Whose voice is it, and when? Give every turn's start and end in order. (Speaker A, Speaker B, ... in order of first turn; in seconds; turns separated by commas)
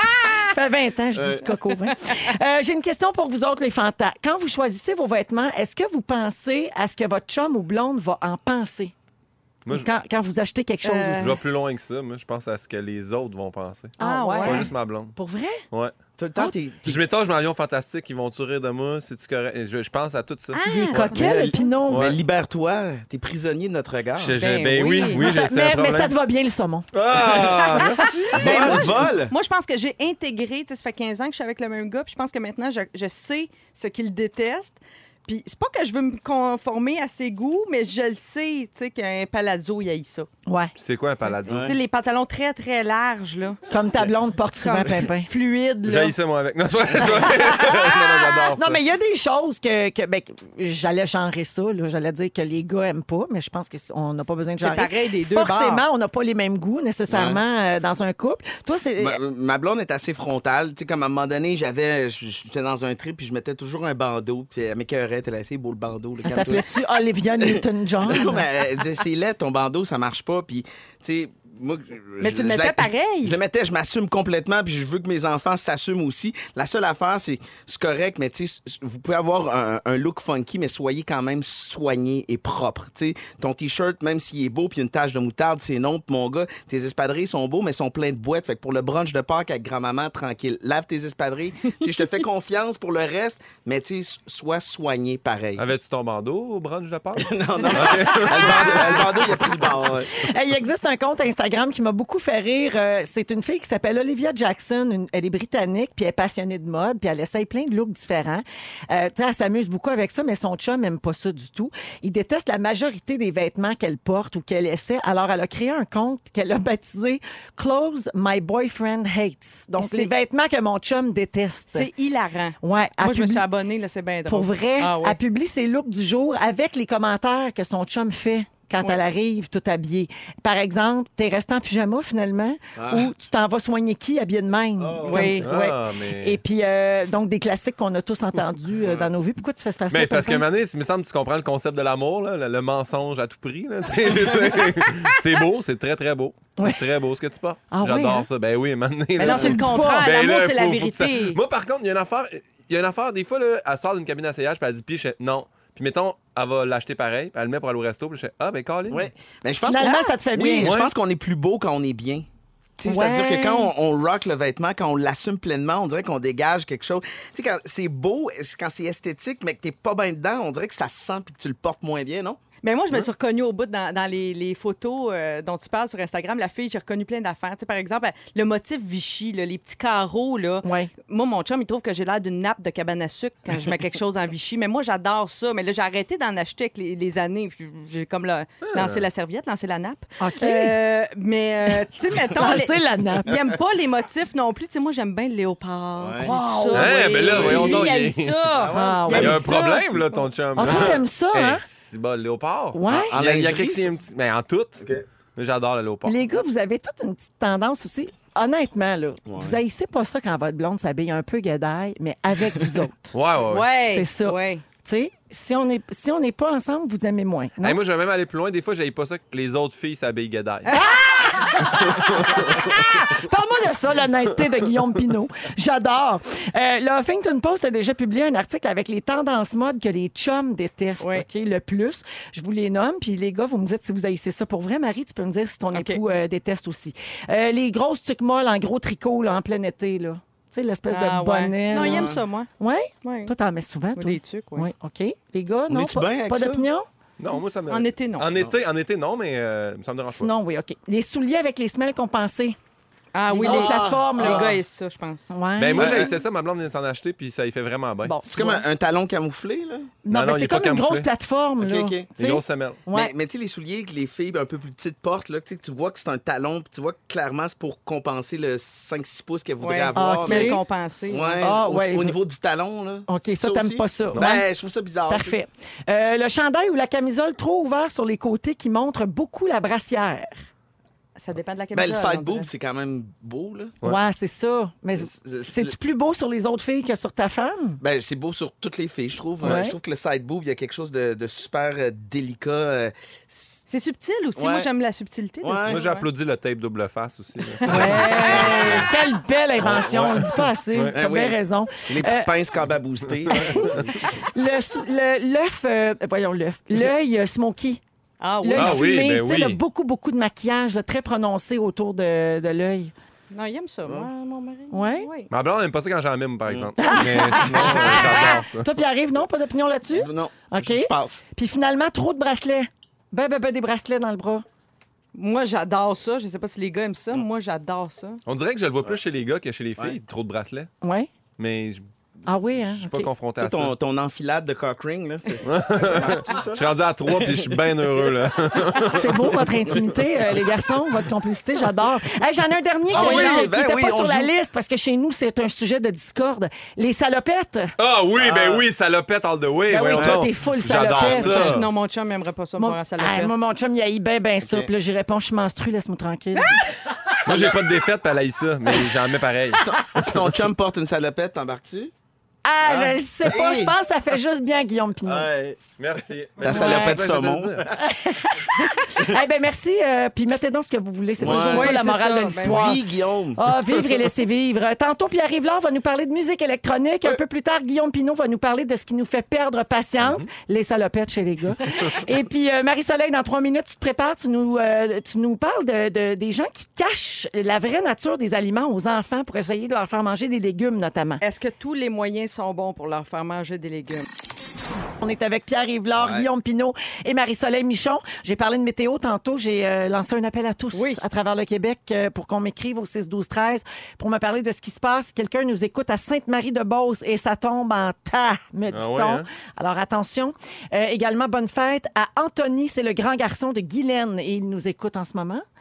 Speaker A: 0.3-8.9, Speaker B: 1.1-1.5, Speaker C: 9.6-9.9, Speaker A: 9.7-11.4, Speaker D: 10.8-11.4, Speaker C: 11.2-15.2, Speaker D: 14.0-14.7, Speaker A: 14.0-15.6, Speaker B: 16.2-17.0, Speaker C: 16.8-21.3, Speaker D: 20.5-21.7, Speaker A: 20.6-22.1, Speaker B: 21.1-24.4, Speaker C: 21.9-22.1, Speaker C: 24.2-26.1, Speaker D: 24.4-25.3, Speaker A: 25.1-26.9, Speaker C: 26.9-29.0, Speaker B: 27.1-29.3, Speaker D: 27.3-40.3, Speaker A: 28.4-28.9, Speaker A: 40.5-40.7, Speaker C: 40.8-41.7, Speaker D: 41.2-43.6, Speaker B: 41.4-41.8, Speaker A: 43.7-45.3, Speaker D: 44.6-46.1, Speaker C: 45.8-48.8, Speaker A: 47.1-59.2, Speaker D: 54.6-55.8, Speaker B: 57.1-57.4, Speaker B: 59.0-95.7, Speaker A: 66.2-68.5, Speaker D: 72.2-73.4, Speaker C: 95.6-99.0, Speaker B: 97.2-100.3, Speaker A: 97.6-121.9, Speaker D: 119.8-120.1, Speaker D: 121.7-125.2, Speaker A: 122.6-123.4, Speaker A: 124.3-140.4, Speaker B: 132.8-133.1, Speaker B: 134.8-135.5, Speaker D: 135.1-135.4, Speaker C: 135.4-136.4, Speaker B: 138.8-139.1, Speaker C: 139.9-159.1, Speaker A: 146.6-146.8, Speaker A: 147.7-148.3, Speaker A: 149.2-150.1, Speaker D: 149.2-151.4, Speaker B: 158.9-162.2, Speaker A: 159.6-160.7, Speaker C: 160.6-160.9, Speaker B: 162.8-172.4, Speaker A: 162.8-163.7, Speaker D: 172.6-199.5, Speaker A: 180.6-180.9, Speaker C: 188.7-189.0, Speaker A: 190.2-190.8, Speaker A: 192.2-193.4, Speaker B: 196.0-196.3, Speaker A: 196.2-197.8, Speaker C: 196.7-198.5, Speaker B: 197.3-197.9, Speaker B: 198.5-199.3, Speaker A: 198.7-199.9, Speaker C: 199.1-204.8, Speaker A: 200.6-201.6, Speaker B: 200.6-200.9, Speaker A: 202.7-203.1, Speaker B: 203.1-203.9, Speaker C: 205.3-206.2, Speaker A: 206.0-213.1, Speaker B: 209.3-209.6, Speaker C: 213.1-213.7, Speaker D: 213.5-214.6, Speaker A: 213.8-217.8, Speaker C: 217.6-220.8, Speaker A: 220.7-246.9, Speaker C: 221.8-222.6, Speaker D: 231.0-231.2, Speaker D: 235.7-236.0, Speaker D: 240.9-242.5, Speaker B: 241.8-242.2, Speaker D: 243.0-243.3, Speaker D: 243.9-244.7, Speaker B: 245.7-246.6, Speaker C: 247.2-250.3, Speaker D: 247.7-248.3, Speaker A: 250.1-252.6, Speaker D: 253.1-255.3, Speaker A: 253.3-254.6, Speaker B: 253.4-254.5, Speaker A: 255.3-256.1, Speaker C: 255.6-258.1, Speaker B: 255.8-256.1, Speaker A: 258.0-258.6, Speaker B: 258.2-259.9, Speaker A: 260.0-263.1, Speaker C: 260.1-261.1, Speaker B: 261.6-262.1, Speaker C: 262.2-262.8, Speaker B: 262.9-275.4, Speaker D: 269.6-271.4, Speaker A: 269.9-272.2, Speaker A: 273.1-274.4, Speaker A: 275.1-280.3, Speaker D: 281.1-282.5, Speaker B: 281.7-283.8, Speaker A: 283.8-287.8, Speaker B: 284.9-285.7, Speaker B: 287.8-293.6, Speaker A: 289.4-289.8, Speaker D: 293.7-296.1, Speaker B: 294.4-294.7, Speaker B: 295.4-295.8, Speaker C: 295.6-298.9, Speaker A: 297.6-302.3, Speaker D: 297.8-298.5, Speaker B: 297.9-298.9, Speaker C: 299.6-300.9, Speaker B: 299.6-299.9, Speaker B: 300.9-304.2, Speaker C: 303.3-303.8, Speaker A: 303.3-307.8, Speaker D: 308.2-308.9, Speaker A: 308.4-312.9, Speaker C: 308.5-309.6, Speaker D: 313.3-315.3, Speaker A: 314.7-315.1, Speaker C: 315.3-318.7, Speaker B: 316.4-318.3, Speaker A: 316.8-324.4, Speaker B: 319.9-321.2, Speaker D: 325.1-328.2, Speaker C: 328.2-330.7, Speaker A: 330.8-331.1, Speaker C: 331.4-331.9, Speaker A: 332.2-333.1, Speaker C: 332.5-333.7, Speaker B: 333.4-338.9, Speaker C: 335.4-340.4, Speaker A: 338.9-347.7, Speaker B: 342.9-344.3, Speaker D: 342.9-343.5, Speaker C: 347.8-351.7, Speaker B: 348.1-348.6, Speaker A: 349.7-351.7, Speaker B: 349.9-350.3, Speaker D: 351.1-353.3, Speaker A: 352.6-356.7, Speaker B: 354.4-354.7, Speaker B: 357.2-357.8, Speaker C: 357.2-359.6, Speaker B: 359.5-361.9, Speaker A: 362.4-365.3, Speaker B: 362.6-363.7, Speaker B: 365.0-365.6, Speaker C: 365.8-367.8, Speaker B: 366.4-367.7, Speaker A: 366.5-367.0, Speaker A: 367.8-372.8, Speaker B: 371.2-371.9, Speaker D: 371.2-372.8, Speaker B: 372.4-373.4, Speaker A: 373.3-391.2, Speaker C: 380.0-380.3, Speaker D: 391.2-394.1, Speaker A: 395.0-415.4, Speaker B: 395.9-396.3, Speaker D: 400.7-401.0, Speaker C: 408.7-409.3